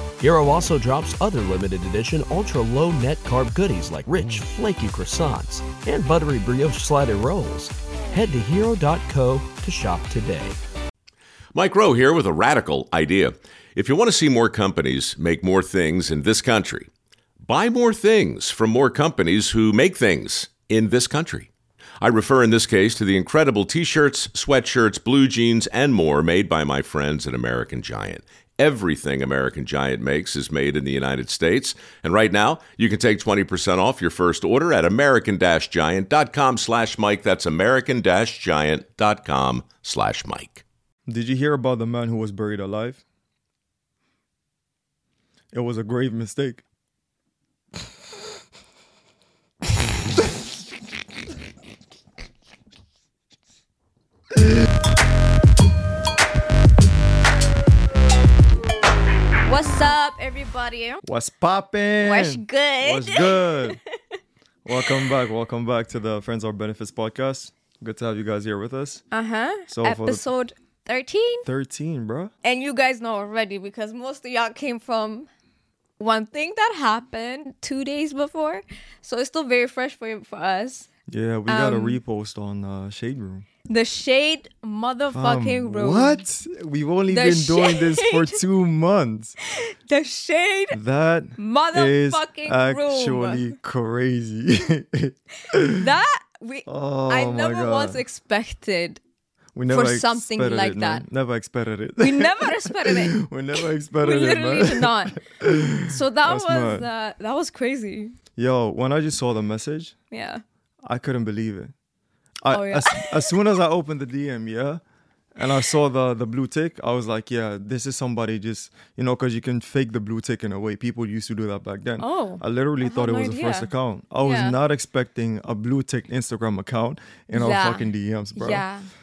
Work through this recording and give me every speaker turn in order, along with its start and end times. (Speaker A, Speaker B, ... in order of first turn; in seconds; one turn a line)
Speaker A: 0.2-10.6
Speaker B: 11.5-16.9
Speaker B: 17.4-40.6
Speaker C: 41.1-43.0
Speaker C: 45.5-46.6
Speaker D: 59.4-61.0
Speaker C: 61.0-63.8
Speaker D: 62.0-63.8
Speaker C: 64.6-69.0
Speaker D: 69.1-71.5
Speaker C: 69.7-70.2
Speaker C: 71.4-72.3
Speaker D: 72.4-75.3
Speaker D: 76.0-80.9
Speaker C: 81.1-83.5
Speaker D: 81.5-82.0
Speaker D: 83.7-86.2
Speaker C: 85.1-89.3
Speaker D: 87.1-88.4
Speaker D: 89.5-90.8
Speaker C: 90.7-95.9
Speaker D: 91.4-93.5
Speaker D: 95.7-99.0
Speaker C: 96.7-98.0
Speaker C: 99.5-106.8
Speaker D: 99.7-101.0
Speaker D: 102.0-103.2
Speaker D: 104.0-105.2
Speaker D: 105.8-108.2
Speaker C: 108.3-109.9
Speaker D: 110.1-110.4
Speaker C: 110.8-111.7
Speaker C: 112.4-114.8
Speaker D: 112.5-113.3
Speaker C: 115.3-128.6
Speaker D: 122.0-123.7
Speaker D: 124.2-124.6
Speaker D: 127.3-128.9